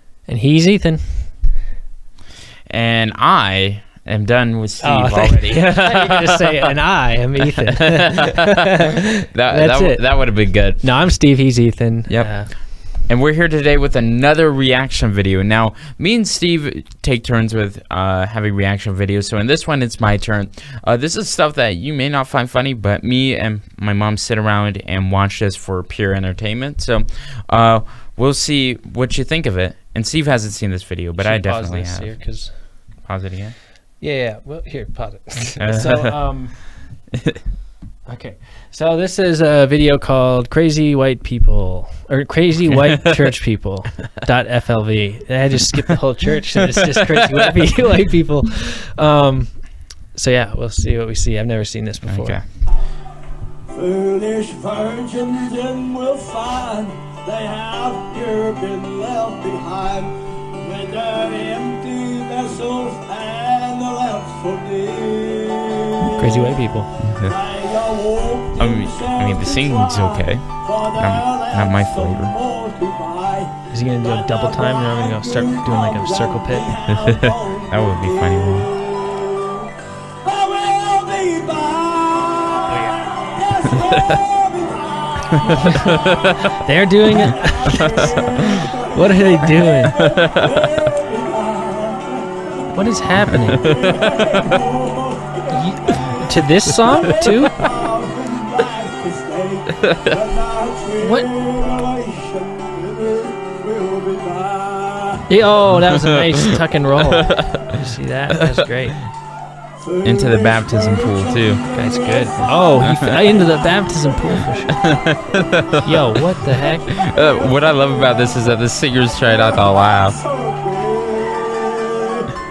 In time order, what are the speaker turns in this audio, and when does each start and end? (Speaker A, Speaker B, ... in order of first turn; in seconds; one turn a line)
Speaker A: 0.2-1.3
Speaker B: 2.7-6.7
Speaker A: 4.8-8.7
Speaker B: 9.2-11.0
Speaker A: 9.4-12.5
Speaker B: 12.1-32.5
Speaker A: 31.2-33.1
Speaker B: 33.0-33.6
Speaker A: 34.0-36.8
Speaker B: 35.6-36.2
Speaker A: 38.1-52.4
Speaker B: 52.1-52.4
Speaker C: 53.7-66.6
Speaker A: 66.2-66.9
Speaker B: 67.1-67.3
Speaker C: 67.2-79.7
Speaker B: 68.6-72.3
Speaker A: 73.7-76.7
Speaker B: 77.0-78.7
Speaker C: 80.2-86.3
Speaker B: 85.4-86.5
Speaker A: 85.5-85.9
Speaker A: 86.6-89.9
Speaker C: 87.2-92.6
Speaker B: 89.9-90.9
Speaker A: 92.7-93.8
Speaker C: 93.6-105.3
Speaker B: 93.6-94.4
Speaker A: 95.5-97.7
Speaker B: 99.8-100.2
Speaker A: 101.0-101.3
Speaker A: 105.3-109.0
Speaker B: 107.3-107.6
Speaker C: 109.8-115.0
Speaker B: 110.0-111.6
Speaker A: 111.7-114.8
Speaker B: 112.8-113.2
Speaker B: 114.8-115.9
Speaker A: 115.8-117.0
Speaker C: 116.9-118.5
Speaker B: 117.0-120.2
Speaker C: 119.6-122.3